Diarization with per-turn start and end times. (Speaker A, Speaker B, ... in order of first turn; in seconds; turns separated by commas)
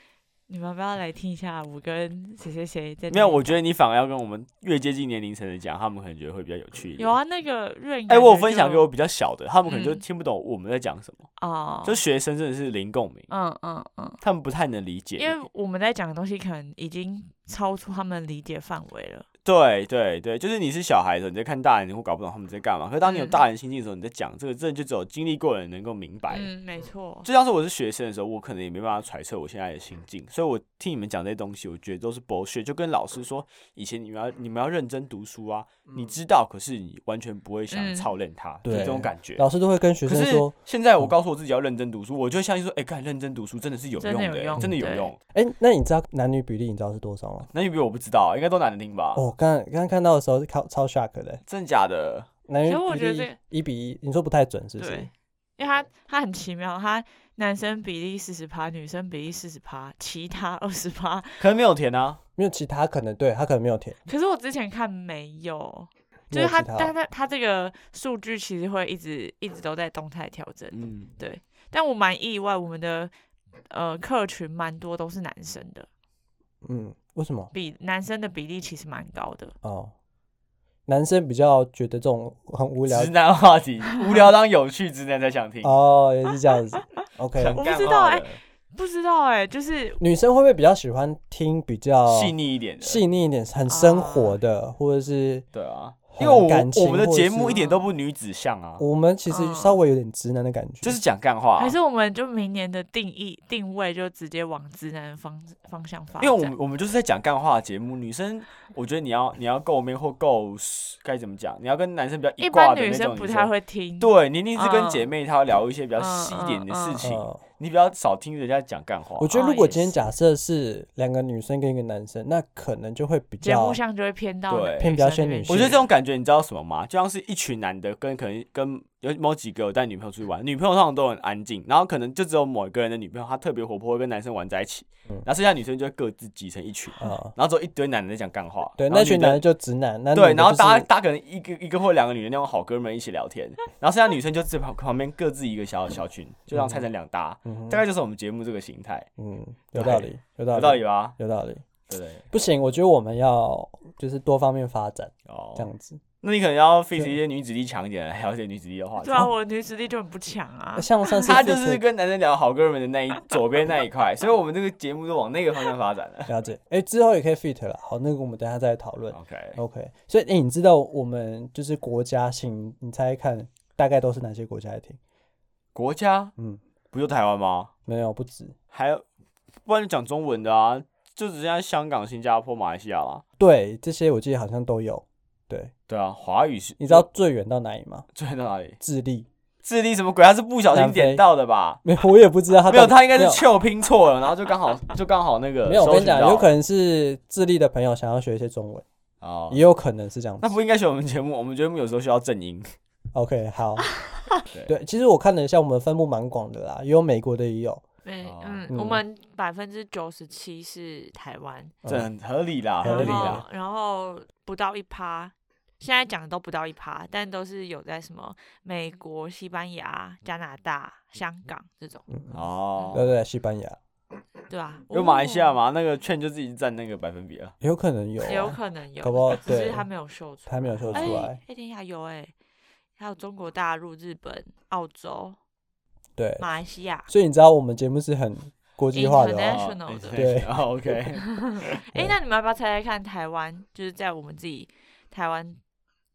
Speaker A: 0.5-3.5, Speaker B: 3.1-7.2, Speaker A: 7.0-8.9, Speaker B: 8.1-11.3, Speaker A: 9.7-10.0, Speaker A: 11.4-12.0, Speaker B: 11.8-13.3, Speaker A: 13.3-14.2, Speaker B: 14.2-15.4, Speaker A: 15.2-19.2, Speaker B: 19.4-26.5, Speaker A: 23.0-23.4, Speaker A: 26.3-27.3, Speaker B: 27.2-39.4, Speaker A: 37.7-38.1, Speaker C: 38.6-41.1, Speaker B: 40.0-45.2, Speaker A: 44.0-45.1, Speaker C: 45.3-47.5, Speaker B: 47.5-49.2, Speaker C: 49.1-51.4, Speaker B: 51.5-52.3, Speaker C: 52.5-55.1, Speaker A: 52.6-53.4, Speaker A: 54.8-61.4, Speaker B: 61.4-62.2, Speaker C: 62.4-64.0, Speaker A: 64.0-73.1, Speaker C: 66.3-66.9, Speaker B: 70.7-71.1, Speaker A: 73.7-75.9, Speaker C: 76.6-77.5, Speaker A: 77.5-79.5, Speaker C: 79.6-79.9, Speaker C: 80.9-83.1, Speaker B: 82.9-85.8, Speaker C: 85.6-87.6, Speaker B: 87.3-88.4, Speaker A: 87.5-90.0, Speaker C: 90.0-95.5, Speaker B: 92.0-93.0, Speaker A: 93.7-94.4, Speaker B: 95.5-98.8, Speaker C: 96.1-97.6, Speaker A: 97.5-97.9, Speaker C: 98.8-101.0, Speaker A: 99.3-99.8, Speaker B: 100.8-101.8, Speaker A: 101.6-106.5, Speaker B: 106.2-119.3, Speaker A: 112.4-115.1, Speaker A: 116.0-117.1, Speaker C: 117.0-117.4, Speaker C: 119.2-123.8, Speaker A: 119.3-120.0, Speaker A: 123.4-125.8, Speaker B: 124.5-124.9, Speaker C: 124.8-125.8, Speaker B: 125.5-139.4, Speaker C: 137.0-137.3, Speaker C: 138.8-140.9, Speaker B: 140.1-149.1, Speaker C: 146.5-146.8, Speaker C: 147.4-147.8, Speaker C: 149.2-151.7, Speaker B: 149.7-151.2, Speaker B: 151.9-152.2, Speaker C: 152.3-156.0, Speaker B: 155.2-155.7, Speaker B: 156.2-159.3, Speaker A: 159.0-160.9, Speaker C: 160.8-161.8, Speaker B: 161.2-166.3, Speaker C: 166.3-175.0, Speaker B: 169.1-169.6, Speaker B: 175.7-176.3, Speaker B: 176.9-177.7, Speaker C: 177.9-178.6, Speaker B: 178.7-179.0, Speaker B: 179.7-183.2, Speaker C: 183.4-185.7, Speaker B: 185.9-187.1, Speaker C: 186.8-188.1, Speaker B: 188.1-188.8, Speaker C: 188.8-189.3, Speaker B: 189.6-191.8, Speaker C: 190.7-191.2, Speaker C: 191.8-193.4, Speaker B: 192.7-196.5, Speaker C: 195.6-198.8, Speaker B: 199.2-199.6, Speaker C: 199.5-200.6, Speaker B: 200.4-202.7, Speaker C: 203.1-204.0, Speaker B: 204.5-204.7, Speaker C: 204.7-207.8, Speaker A: 208.0-211.7, Speaker B: 208.2-208.7, Speaker C: 208.7-209.0, Speaker C: 211.8-212.1, Speaker B: 211.8-213.4, Speaker C: 212.8-213.4, Speaker A: 212.8-222.0, Speaker C: 222.1-223.8, Speaker B: 222.3-223.1, Speaker A: 224.5-225.6, Speaker B: 224.9-227.5, Speaker C: 227.6-229.9, Speaker A: 228.2-232.3, Speaker C: 230.5-231.4, Speaker B: 230.9-231.3, Speaker A: 233.0-235.4, Speaker C: 236.2-236.4, Speaker A: 236.4-237.1, Speaker C: 237.1-239.6, Speaker A: 238.9-240.2, Speaker B: 239.5-241.8, Speaker C: 240.1-241.0, Speaker A: 241.2-245.6